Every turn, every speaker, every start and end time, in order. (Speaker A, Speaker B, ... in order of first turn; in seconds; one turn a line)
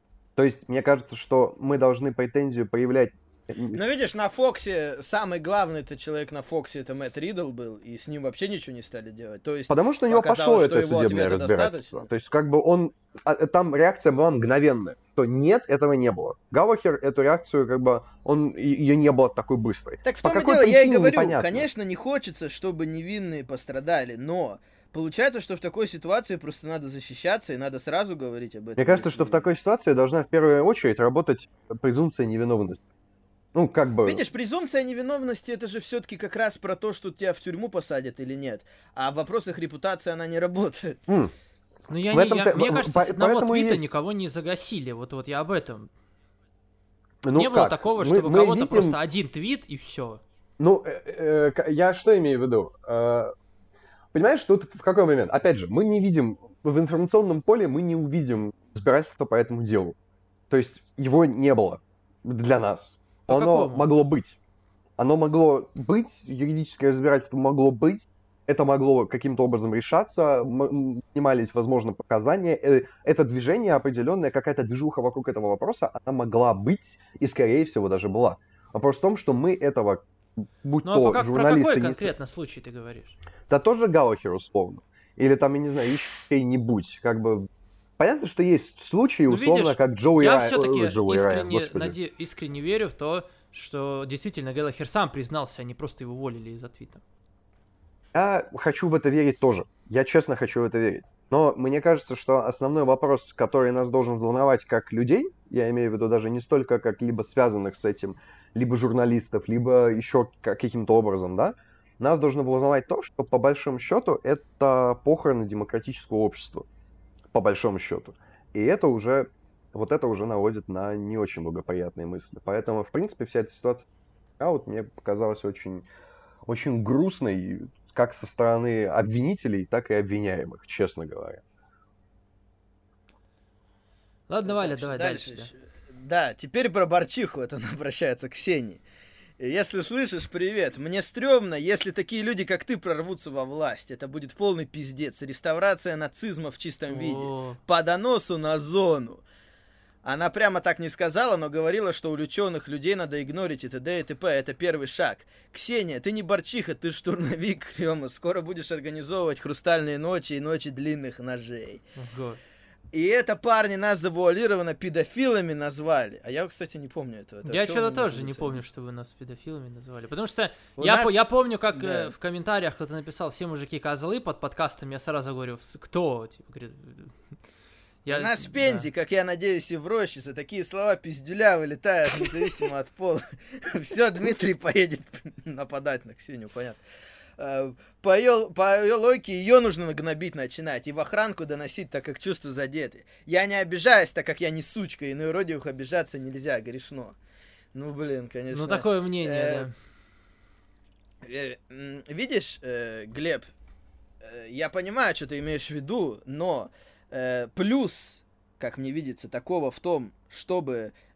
Speaker A: 0.4-3.8
Speaker B: 3.7-12.1
Speaker A: 9.7-21.7
Speaker B: 20.0-29.4
Speaker A: 28.8-32.8
Speaker A: 33.5-34.2
Speaker B: 34.0-41.0
Speaker A: 41.1-41.3
Speaker C: 41.9-45.9
Speaker A: 42.1-43.9
Speaker A: 47.2-49.0
Speaker C: 47.4-50.2
Speaker A: 50.6-53.3
Speaker A: 54.1-60.0
Speaker A: 60.5-64.4
Speaker C: 63.3-63.9
Speaker A: 65.0-82.1
Speaker C: 80.8-83.2
Speaker A: 83.5-92.0
Speaker C: 89.3-97.0
Speaker A: 98.1-116.7
Speaker A: 117.3-123.9
Speaker A: 124.4-125.9
Speaker A: 126.5-131.4
Speaker C: 134.3-135.5
Speaker B: 134.4-138.8
Speaker B: 139.4-149.2
Speaker C: 146.9-147.6
Speaker B: 150.0-161.8
Speaker C: 162.0-162.4
Speaker B: 162.9-168.6
Speaker C: 167.4-177.1
Speaker B: 170.8-172.1
Speaker C: 178.1-178.9
Speaker B: 178.1-186.8
Speaker B: 187.4-197.2
Speaker B: 197.7-199.7
Speaker C: 198.5-199.7
Speaker B: 201.2-203.5
Speaker B: 204.2-210.9